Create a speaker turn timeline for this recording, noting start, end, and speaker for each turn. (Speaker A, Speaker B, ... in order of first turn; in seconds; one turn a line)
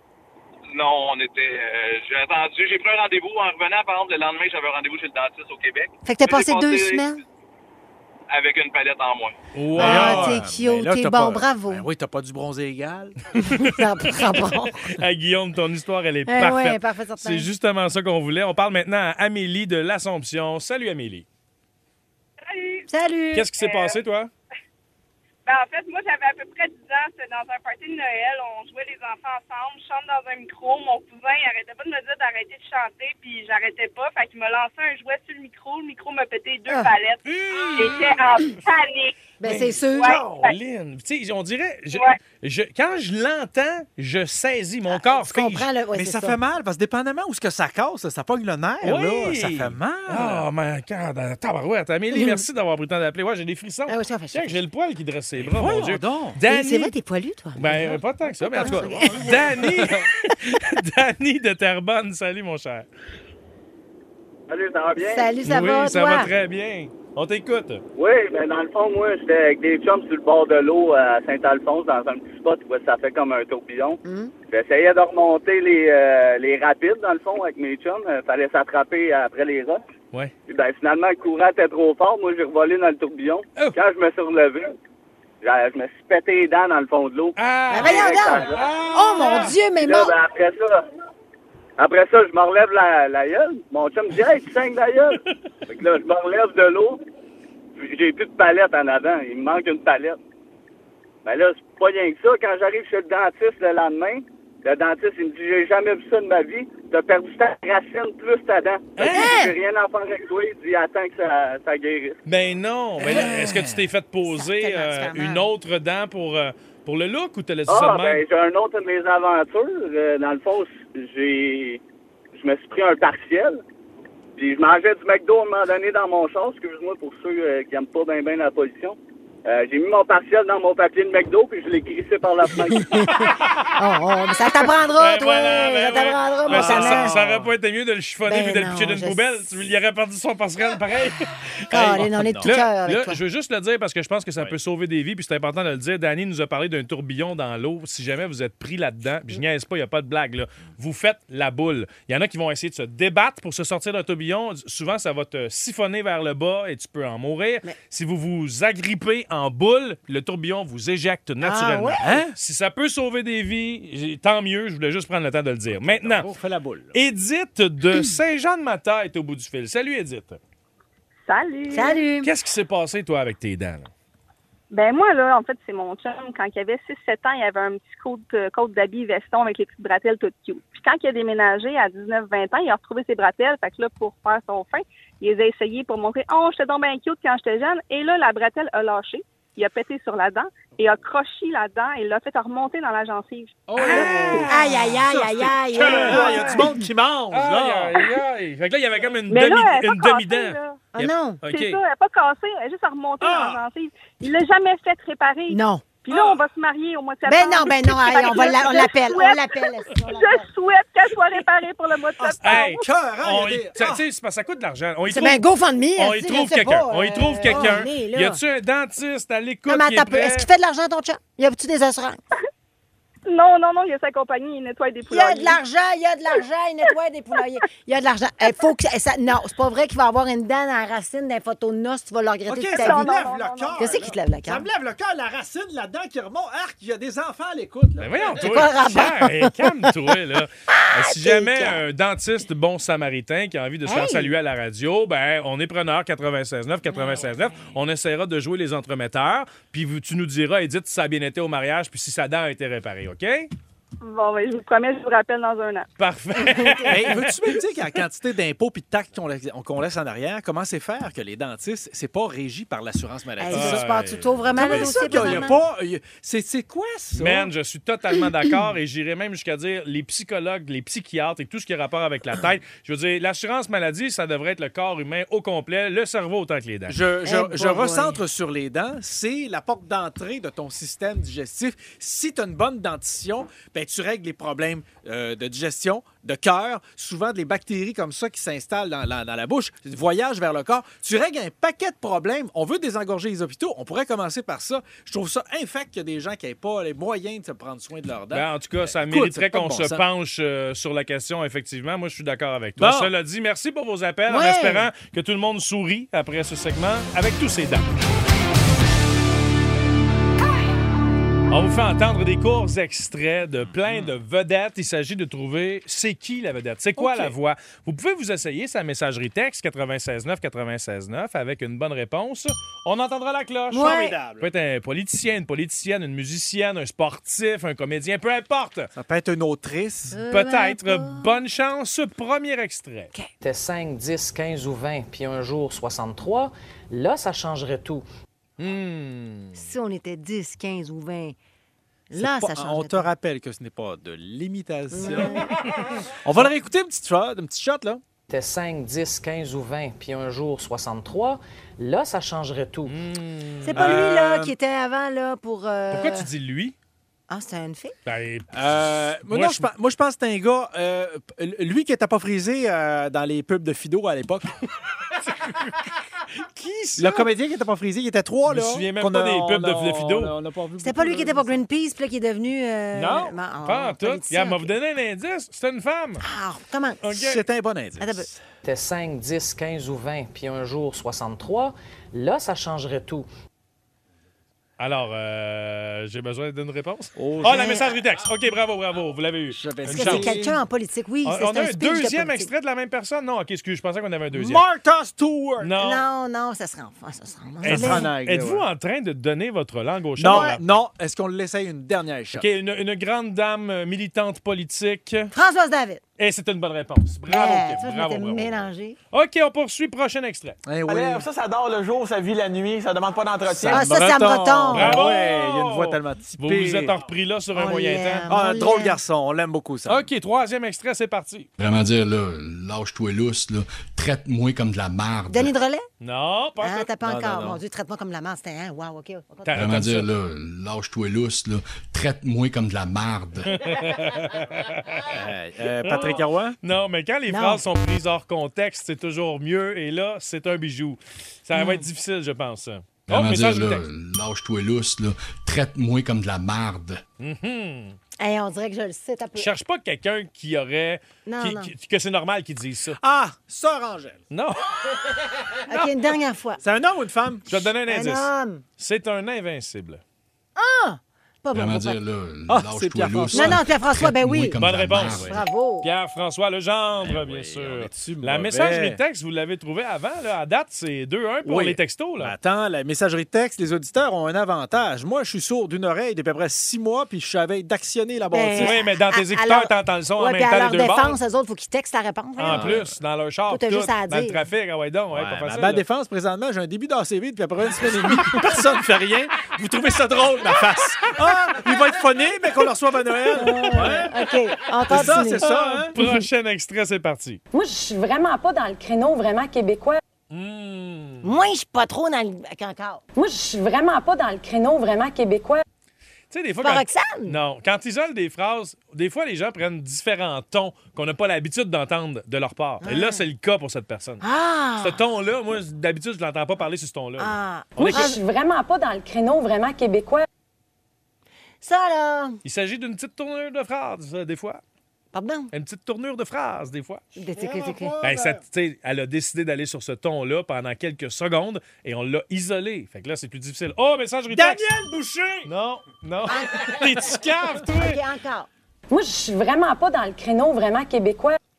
Speaker A: 0.7-7.0
Speaker B: 6.0-7.2
Speaker A: 8.3-9.3
Speaker C: 9.5-10.4
Speaker D: 9.7-13.2
Speaker B: 9.8-11.8
Speaker B: 13.4-14.9
Speaker C: 14.9-21.2
Speaker B: 16.3-17.5
Speaker E: 22.4-22.9
Speaker B: 22.9-23.5
Speaker C: 23.3-24.3
Speaker E: 23.6-24.0
Speaker E: 25.4-37.2
Speaker C: 37.2-38.2
Speaker E: 37.8-39.2
Speaker B: 39.4-40.2
Speaker C: 39.4-45.7
Speaker E: 40.0-40.5
Speaker E: 41.9-42.2
Speaker B: 44.9-46.4
Speaker D: 45.9-50.5
Speaker C: 48.8-56.9
Speaker B: 52.1-52.4
Speaker B: 53.9-54.6
Speaker D: 55.4-56.4
Speaker B: 56.5-59.4
Speaker C: 57.5-62.9
Speaker D: 58.5-60.0
Speaker F: 64.5-65.3
Speaker B: 65.0-66.3
Speaker C: 65.4-67.8
Speaker F: 68.0-79.8
Speaker B: 74.0-74.3
Speaker F: 80.5-84.7
Speaker F: 85.4-88.6
Speaker C: 87.4-89.6
Speaker B: 87.7-90.1
Speaker F: 89.8-90.8
Speaker F: 91.8-97.0
Speaker F: 97.8-100.2
Speaker F: 101.2-112.2
Speaker C: 109.0-109.4
Speaker B: 109.1-109.5
Speaker C: 112.2-118.2
Speaker D: 113.0-113.8
Speaker B: 113.0-113.4
Speaker B: 114.2-115.5
Speaker F: 117.7-121.8
Speaker F: 122.3-123.6
Speaker F: 124.3-133.1
Speaker B: 132.7-137.2
Speaker C: 133.2-133.7
Speaker C: 135.0-166.3
Speaker D: 136.5-137.5
Speaker B: 138.2-139.5
Speaker B: 141.7-143.2
Speaker D: 141.8-142.6
Speaker B: 161.4-162.0
Speaker D: 162.0-162.3
Speaker D: 165.7-166.9
Speaker C: 166.9-170.4
Speaker E: 171.3-172.0
Speaker B: 171.7-172.3
Speaker C: 172.2-173.9
Speaker E: 174.7-194.4
Speaker D: 193.7-198.1
Speaker C: 193.8-195.0
Speaker B: 194.5-196.8
Speaker C: 195.8-196.4
Speaker C: 197.3-201.8
Speaker E: 199.3-200.8
Speaker B: 200.9-201.4
Speaker E: 201.5-212.9
Speaker D: 203.2-203.6
Speaker B: 205.5-205.8
Speaker B: 207.2-210.5
Speaker D: 212.2-214.0
Speaker C: 212.4-215.4
Speaker B: 215.1-218.4
Speaker C: 215.9-220.5
Speaker B: 219.7-222.2
Speaker E: 223.3-225.6
Speaker B: 225.1-233.2
Speaker D: 232.5-238.7
Speaker E: 232.7-233.8
Speaker B: 233.8-234.7
Speaker C: 238.0-253.5
Speaker B: 238.4-239.9
Speaker B: 240.7-241.8
Speaker B: 243.8-244.3
Speaker B: 246.9-247.3
Speaker E: 254.0-255.9
Speaker C: 256.0-257.4
Speaker B: 256.5-256.9
Speaker D: 256.8-264.0
Speaker B: 263.4-265.6
Speaker C: 263.5-265.5
Speaker D: 264.5-267.5
Speaker C: 267.1-277.0
Speaker D: 276.9-300.0
Speaker B: 277.2-278.2
Speaker C: 298.3-307.9
Speaker D: 302.8-303.1
Speaker B: 304.3-304.9
Speaker C: 311.5-328.9
Speaker D: 313.7-314.1
Speaker B: 317.0-317.3
Speaker B: 323.7-324.2
Speaker D: 323.7-324.5
Speaker D: 328.9-330.2
Speaker B: 330.1-331.3
Speaker C: 330.2-333.1
Speaker G: 333.4-338.0
Speaker C: 338.6-339.6
Speaker B: 339.5-341.4
Speaker B: 342.1-343.1
Speaker D: 342.2-345.5
Speaker B: 344.9-345.5
Speaker D: 346.2-348.0
Speaker G: 348.3-352.9
Speaker C: 352.9-354.2
Speaker B: 353.6-356.3
Speaker D: 353.7-354.5
Speaker C: 355.9-356.7
Speaker B: 357.3-357.9
Speaker C: 358.1-358.6
Speaker D: 358.5-364.5
Speaker C: 359.3-359.7
Speaker C: 365.2-367.3
Speaker D: 367.0-371.6
Speaker C: 368.5-370.3
Speaker B: 370.8-374.7
Speaker C: 372.9-376.2
Speaker B: 376.2-377.0
Speaker C: 377.0-377.4
Speaker D: 377.1-378.4
Speaker B: 378.0-378.3
Speaker G: 378.6-383.3
Speaker C: 384.8-390.4
Speaker D: 387.2-387.7
Speaker B: 387.4-388.0
Speaker D: 389.5-390.6
Speaker B: 389.9-392.5
Speaker C: 391.2-394.6
Speaker D: 394.3-395.8
Speaker C: 395.6-396.0
Speaker B: 395.8-398.1
Speaker C: 397.6-400.6
Speaker D: 397.6-398.6
Speaker D: 400.2-402.5
Speaker B: 400.3-400.6
Speaker C: 402.3-405.3
Speaker B: 405.3-406.0
Speaker C: 406.2-410.6
Speaker B: 407.3-409.0
Speaker D: 410.6-411.2
Speaker H: 410.9-413.9
Speaker D: 413.5-416.9
Speaker B: 413.7-414.9
Speaker C: 414.7-418.3
Speaker B: 417.5-419.0
Speaker D: 418.3-420.0
Speaker C: 419.9-421.5
Speaker I: 421.6-425.5
Speaker B: 425.3-425.9
Speaker C: 426.0-426.9
Speaker B: 426.6-429.6
Speaker D: 427.0-427.6
Speaker C: 429.5-430.0
Speaker I: 429.5-433.5
Speaker C: 433.5-435.1
Speaker D: 435.1-436.6
Speaker C: 435.8-443.8
Speaker B: 437.3-437.6
Speaker B: 441.5-441.9
Speaker I: 443.1-447.0
Speaker C: 447.2-448.0
Speaker B: 448.2-449.5
Speaker C: 449.4-453.0
Speaker B: 451.2-451.7
Speaker D: 453.0-454.2
Speaker C: 454.3-454.7
Speaker B: 455.6-456.6
Speaker D: 456.6-457.7
Speaker C: 457.5-460.0
Speaker B: 457.9-458.6
Speaker B: 460.6-462.0
Speaker I: 461.5-465.4
Speaker D: 462.5-463.6
Speaker B: 463.3-464.6
Speaker C: 464.6-465.2
Speaker D: 465.1-465.4
Speaker B: 465.2-465.9
Speaker C: 465.8-472.3
Speaker D: 467.0-469.0
Speaker D: 471.4-478.8
Speaker B: 478.3-482.8
Speaker C: 478.6-481.2
Speaker C: 482.4-485.8
Speaker D: 482.5-482.9
Speaker B: 483.5-484.4
Speaker D: 485.1-494.1
Speaker B: 493.4-496.2
Speaker C: 493.7-494.0
Speaker D: 494.9-495.9
Speaker C: 495.4-497.4
Speaker J: 497.5-500.0
Speaker C: 500.3-501.3
Speaker B: 501.2-503.0
Speaker J: 503.1-505.6
Speaker C: 506.3-514.2
Speaker B: 506.6-507.4
Speaker B: 512.8-513.2
Speaker B: 514.2-515.1
Speaker C: 514.8-518.1
Speaker B: 517.2-518.2
Speaker J: 517.8-520.2
Speaker B: 521.6-522.4
Speaker C: 522.4-524.6
Speaker B: 525.1-525.5
Speaker C: 525.5-527.0
Speaker B: 527.1-527.9
Speaker D: 527.3-528.4
Speaker C: 528.0-534.7
Speaker D: 534.3-535.5
Speaker C: 535.5-538.0
Speaker B: 536.3-538.5
Speaker J: 538.9-541.4